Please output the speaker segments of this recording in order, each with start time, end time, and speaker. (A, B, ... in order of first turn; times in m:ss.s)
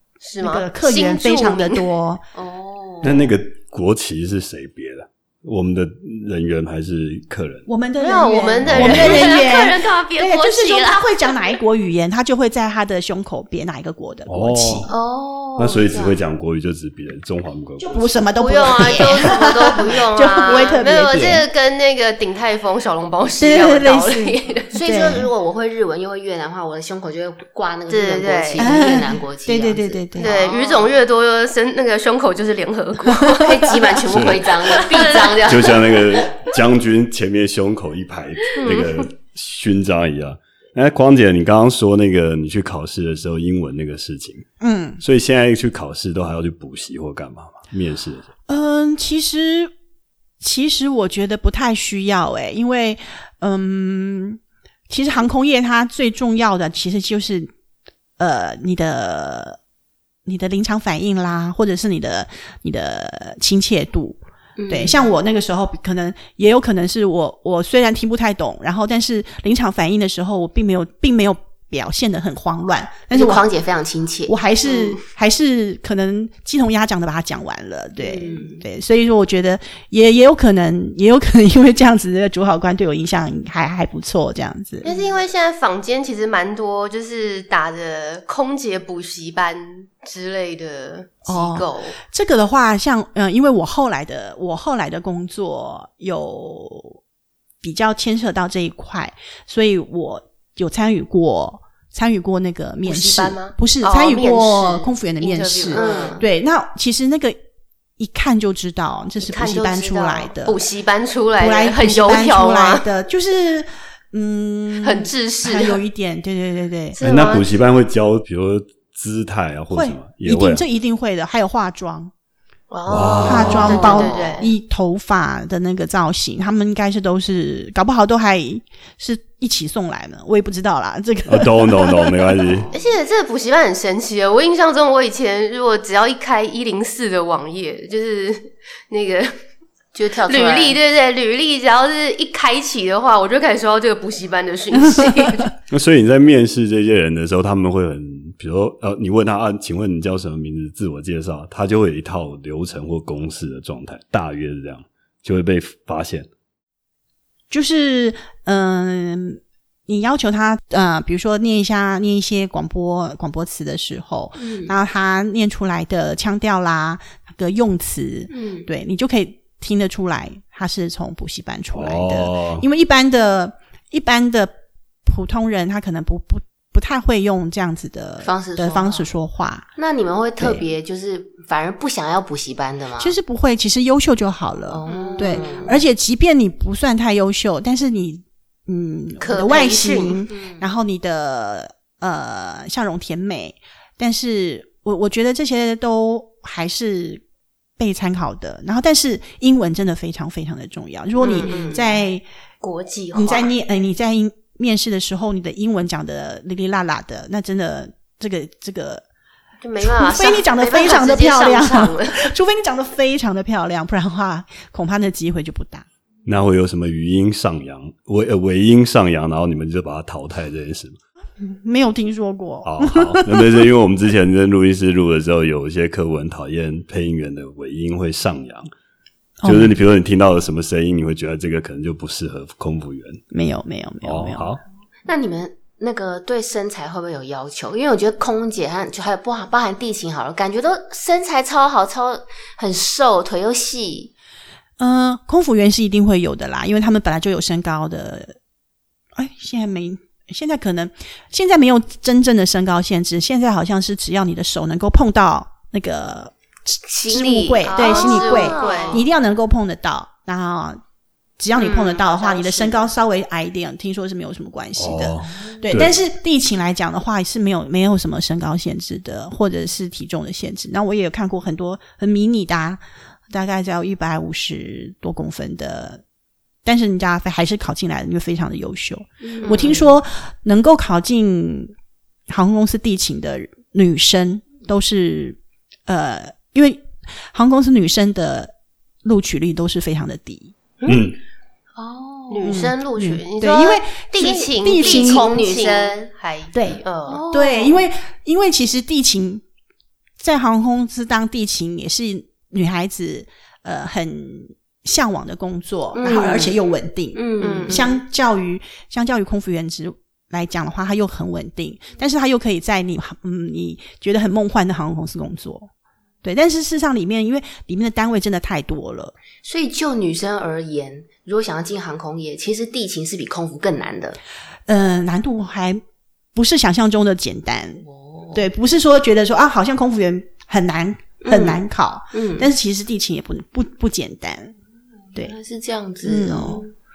0:00.2-0:01.8 A
0:00.4-0:02.2 B
0:02.3-0:03.3 C
0:03.0-0:07.6 D
0:07.7-0:14.9 B
0:08.0-0:11.3 A
0:08.6-0:09.4 D
0:14.3-0:14.9 D
0:14.9-0:16.2 C
0:15.6-0:18.3 D
0:17.8-0:21.4 B
0:18.4-0:24.7 A
0:18.8-0:19.7 C
0:20.4-0:20.7 C
0:23.4-0:25.3 B
0:24.7-0:31.0 C
0:27.9-0:28.7 A
0:28.6-0:30.3 B
0:30.2-0:34.0 A
0:33.1-0:33.8 B
0:33.3-0:36.0 C
0:34.0-0:44.5 D
0:34.6-0:35.5 A
0:38.6-0:39.1 A
0:44.6-0:45.0 B
0:45.0-0:48.3 D
0:48.5-0:49.7 B
0:50.4-0:57.5 B
0:58.2-0:59.6 B
1:00.2-1:13.5 B
1:04.6-1:05.0 C
1:13.1-1:14.3 C
1:14.3-1:24.9 B
1:18.0-1:18.6 C
1:24.8-1:32.0 A
1:24.8-1:25.1 C
1:31.3-1:37.0 B
1:37.6-1:47.4 B
1:42.8-1:46.2 A
1:45.7-1:46.2 C
1:48.0-1:50.6 B
1:49.2-1:52.8 A
1:51.4-1:57.0 B
1:54.8-1:55.8 A
1:56.9-1:57.6 A
1:57.0-2:00.6 D
1:59.7-2:02.1 B
2:02.7-2:04.5 A
2:02.9-2:03.8 D
2:03.2-2:12.4 B
2:03.4-2:04.4 C
2:11.3-2:12.7 D
2:12.7-2:19.4 A
2:19.9-2:20.8 C
2:20.2-2:25.5 A
2:24.8-2:25.5 B
2:25.7-2:36.3 D
2:37.5-2:54.5 B
2:44.4-2:44.7 C
2:48.3-2:48.7 C
2:51.7-2:52.6 D
2:55.0-2:59.7 B
2:58.2-2:59.0 C
2:59.8-3:03.1 C
3:00.4-3:00.6 B
3:03.0-3:17.2 B
3:04.7-3:05.8 C
3:04.9-3:05.5 A
3:09.2-3:10.2 A
3:10.3-3:10.6 C
3:17.8-3:22.2 B
3:21.2-3:22.0 A
3:21.4-3:21.7 C
3:22.6-3:23.5 A
3:23.1-3:29.0 B
3:29.6-3:32.3 A
3:29.8-3:35.8 B
3:36.2-3:41.0 D
3:41.4-3:43.7 B
3:42.6-3:48.7 D
3:49.4-3:49.7 B
3:49.4-3:53.2 D
3:53.3-3:54.5 B
3:54.0-3:54.6 D
3:55.0-4:04.1 C
4:04.8-4:08.4 B
4:09.1-4:20.8 B
4:16.8-4:19.0 C
4:17.7-4:19.0 A
4:21.4-4:36.0 B
4:21.6-4:22.4 A
4:22.2-4:22.8 C
4:24.8-4:25.9 D
4:36.6-4:41.7 B
4:39.2-4:39.9 C
4:39.4-4:39.8 A
4:42.3-4:48.5 B
4:49.0-4:50.5 B
4:50.9-4:51.2 D
4:51.8-4:52.6 C
4:52.3-4:57.2 A
4:52.4-4:55.4 B
4:54.2-4:56.1 C
4:56.5-4:59.4 B
4:57.1-4:57.8 C
5:00.2-5:15.7 B
5:05.9-5:06.5 C
5:07.1-5:08.0 C
5:07.4-5:08.0 A
5:16.2-5:19.1 B
5:19.4-5:24.2 C
5:24.7-5:25.8 B
5:26.3-5:34.5 B
5:27.8-5:28.4 C
5:31.2-5:32.5 C
5:35.1-5:36.7 C
5:36.0-5:36.6 B